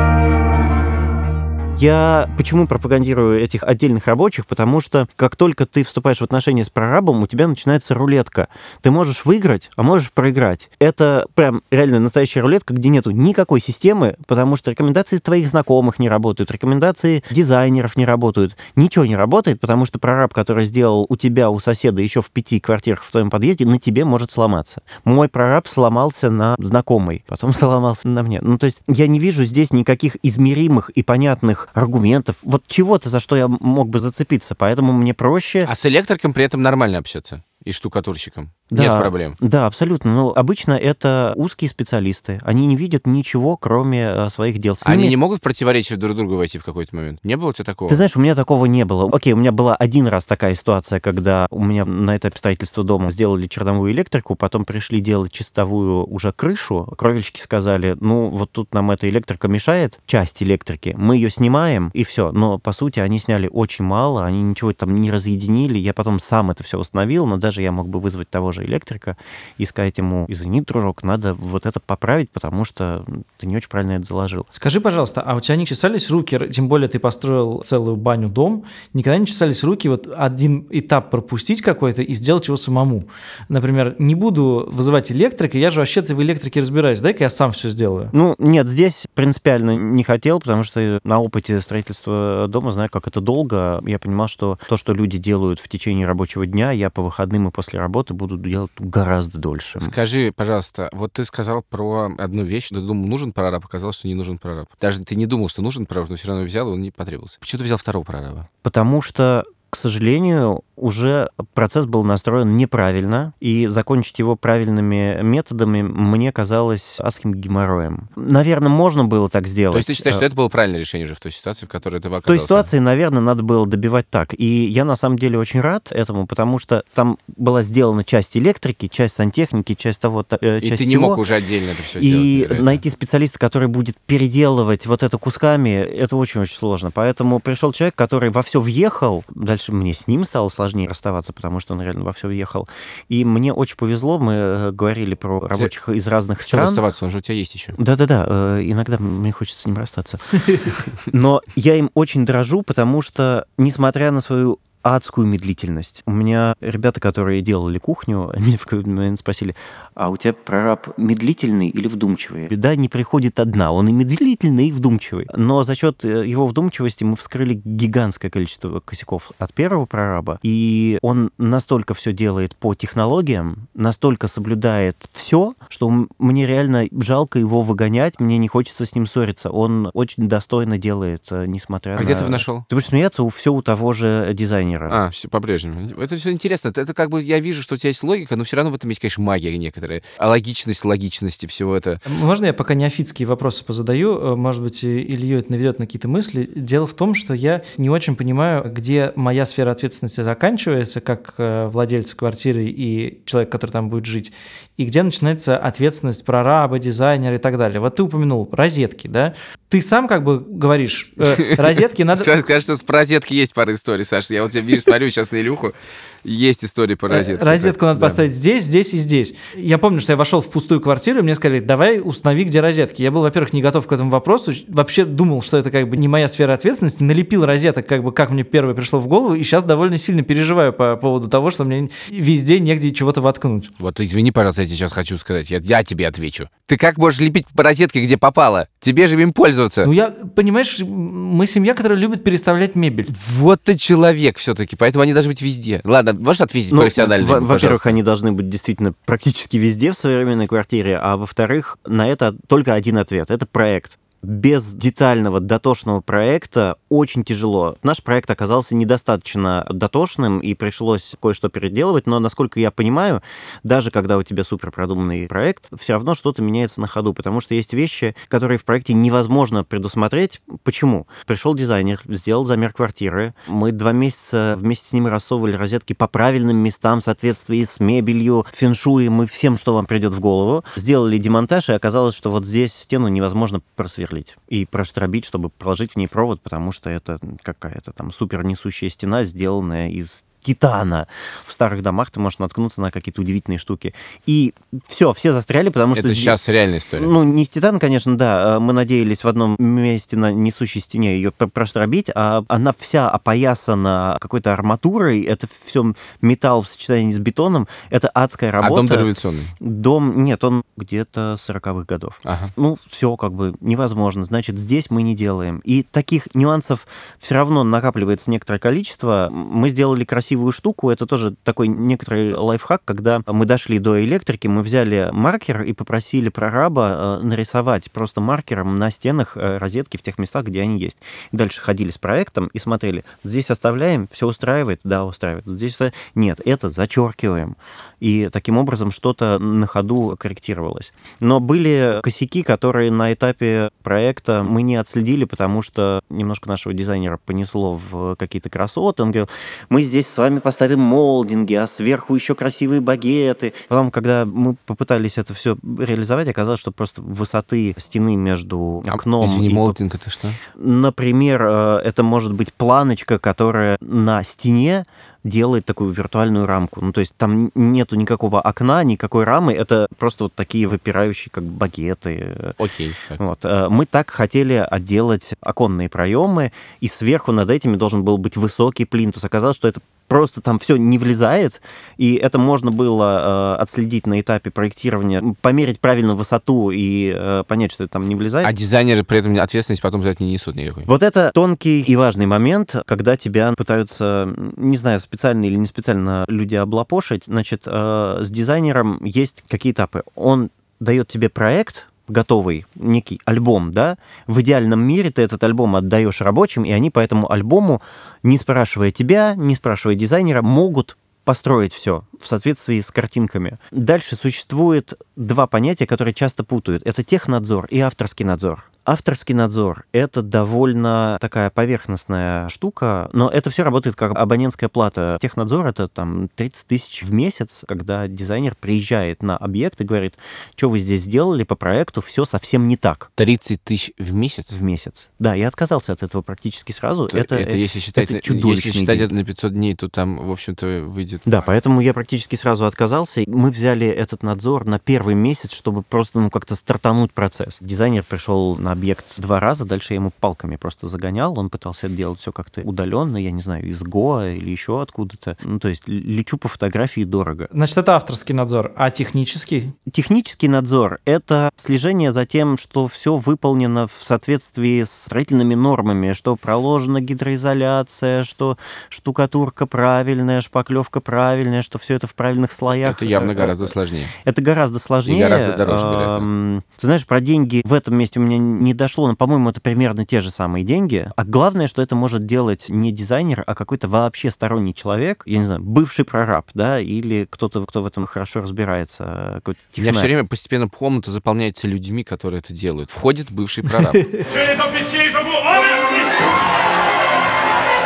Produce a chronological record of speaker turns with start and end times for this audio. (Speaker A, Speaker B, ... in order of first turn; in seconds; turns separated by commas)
Speaker A: 1.8-35.7, Speaker B: 35.6-39.4, Speaker A: 38.7-45.1, Speaker B: 44.8-48.0, Speaker A: 47.9-74.5, Speaker C: 74.5-88.1, Speaker A: 88.1-99.9, Speaker B: 99.8-108.5, Speaker A: 108.6-120.2, Speaker B: 119.7-122.7, Speaker A: 122.2-131.2, Speaker B: 130.6-132.8, Speaker A: 132.0-146.8, Speaker B: 146.4-147.8, Speaker A: 147.8-185.0, Speaker B: 181.9-182.7, Speaker B: 184.9-192.0, Speaker C: 192.1-212.3, Speaker B: 211.2-218.2, Speaker C: 217.1-233.7, Speaker B: 233.8-239.9, Speaker C: 239.8-243.1, Speaker B: 243.1-248.0, Speaker A: 246.7-296.4, Speaker B: 295.9-297.1, Speaker A: 296.9-359.8, Speaker B: 308.6-309.5, Speaker B: 312.2-312.5, Speaker B: 358.9-360.4, Speaker A: 360.6-372.6, Speaker B: 372.6-373.2, Speaker A: 373.1-388.5, Speaker B: 388.4-390.9, Speaker A: 390.9-433.1, Speaker B: 433.2-434.5, Speaker A: 434.5-439.1, Speaker B: 437.1-441.2, Speaker A: 441.2-457.5, Speaker C: 457.5-459.7, Speaker A: 459.9-490.1, Speaker B: 472.8-474.1, Speaker B: 475.1-476.3, Speaker B: 489.8-494.1